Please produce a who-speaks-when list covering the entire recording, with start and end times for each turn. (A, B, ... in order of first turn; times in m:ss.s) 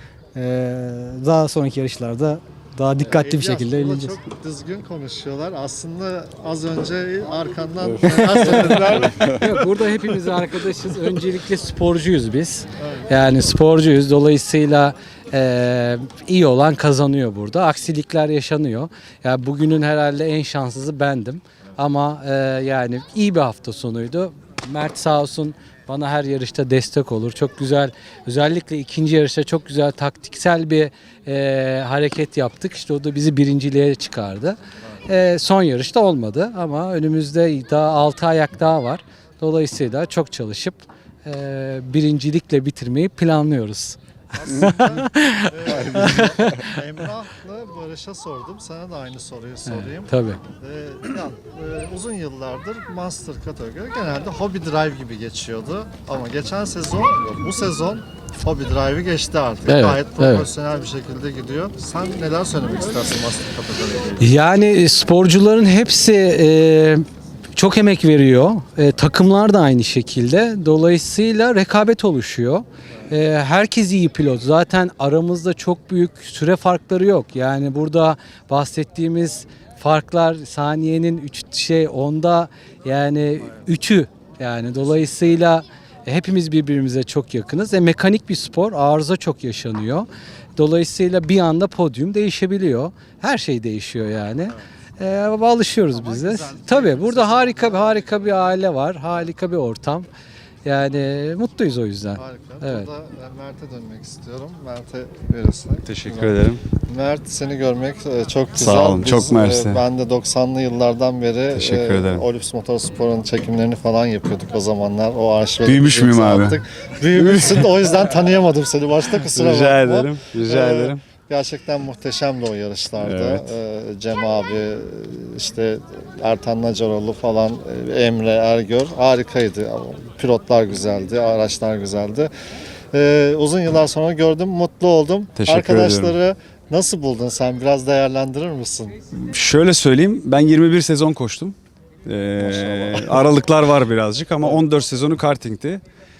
0:00.4-0:04.2 A
0:03.0-0:09.2 B
0:08.0-0:09.0 A
0:09.2-0:46.7 C
0:44.4-1:04.3 B
0:49.7-0:50.4 C
0:59.7-1:00.5 C
1:04.2-1:07.0 C
1:07.6-1:40.1 C
1:35.9-1:38.6 B
1:40.6-1:42.9 C
1:42.1-2:12.3 B
1:45.9-1:46.6 D
1:48.6-1:49.8 D
1:51.5-1:52.2 D
1:55.6-1:56.6 D
1:57.2-1:57.7 D
1:59.3-2:01.0 D
2:03.0-2:03.5 D
2:12.9-2:19.0 B
2:15.4-2:16.2 D
2:19.3-2:21.6 D
2:22.1-2:25.8 D
2:22.4-2:23.1 B